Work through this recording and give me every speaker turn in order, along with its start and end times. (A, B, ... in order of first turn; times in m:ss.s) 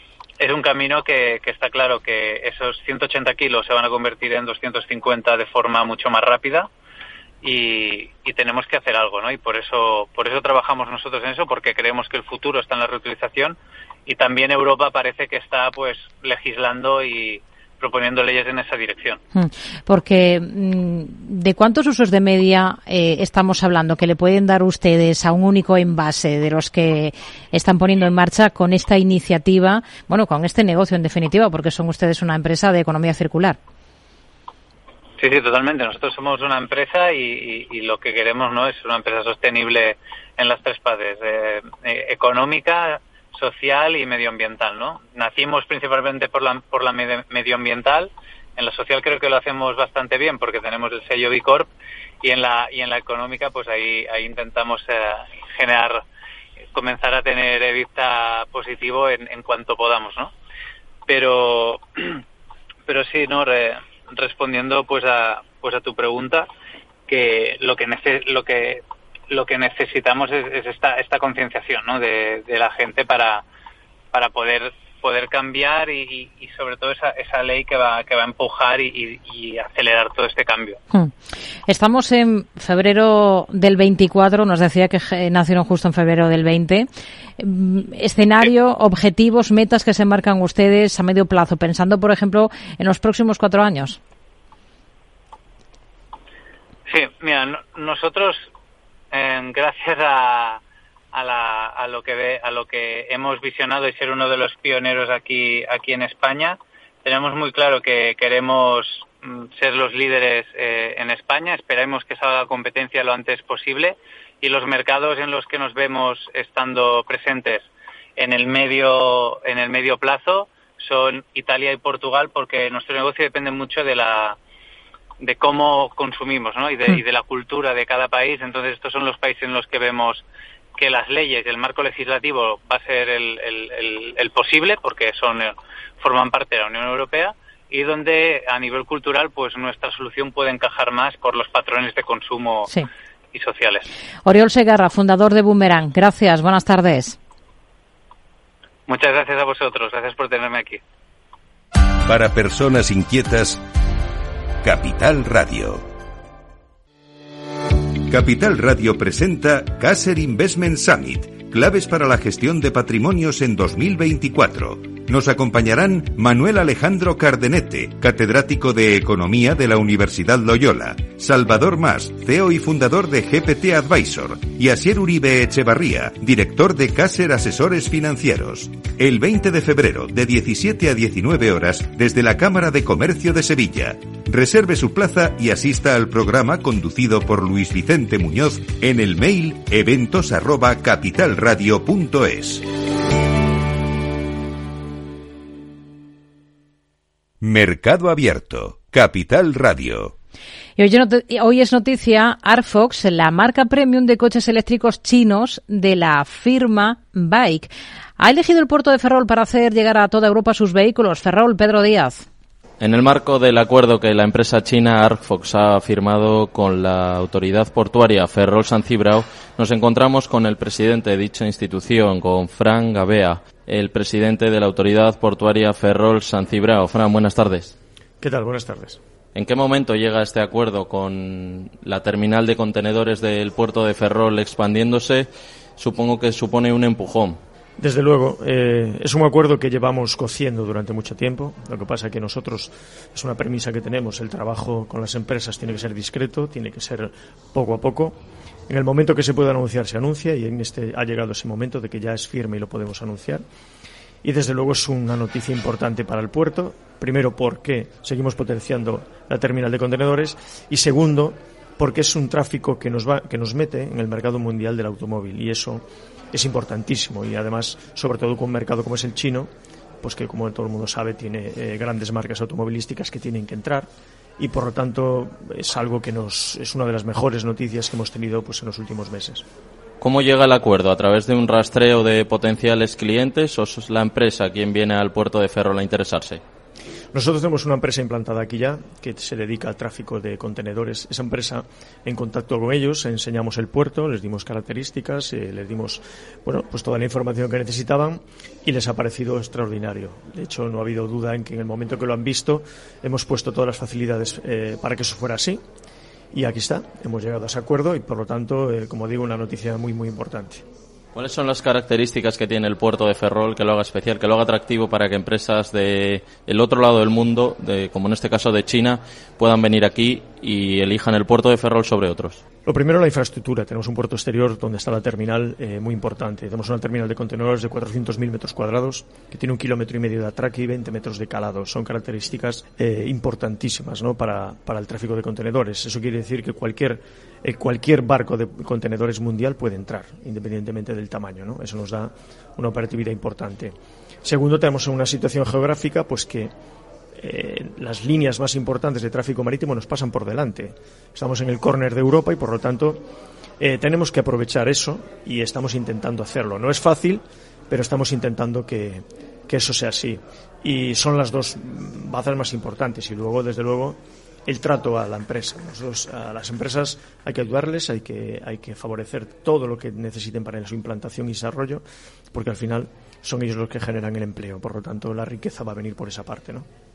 0:00.4-0:06.7 A
0:07.4-0:19.2 A
0:19.3-0:33.6 B
0:35.2-0:51.7 A
0:52.2-0:56.0 A
0:56.7-1:00.3 A
1:01.1-1:02.2 A
1:02.8-1:06.5 A
1:07.1-1:13.4 A
1:14.1-1:20.8 A
1:21.7-1:26.9 B
1:27.4-1:34.0 B
1:36.9-1:38.5 A
1:39.1-1:40.6 A
1:41.1-2:04.4 A
2:05.2-2:10.2 A
2:10.7-2:22.7 A
2:23.3-2:23.8 A
2:24.2-2:27.2 B
2:28.9-2:30.8 A
2:32.0-2:33.6 C
2:34.6-2:35.8 C
2:38.1-3:12.6 C
3:17.4-3:20.1 C
3:20.8-3:32.2 B
3:32.8-3:47.7 D
3:48.2-3:49.0 E
3:49.3-3:57.4 D
3:57.8-4:08.2 E
4:08.7-4:13.4 E
4:14.2-4:29.5 E
4:30.0-4:39.4 E
4:40.0-4:46.4 D
4:47.1-5:05.6 E
5:06.3-5:10.6 E
5:11.1-5:22.4 D
5:22.6-5:46.5 E
5:47.2-5:53.0 E
5:53.6-6:16.6 E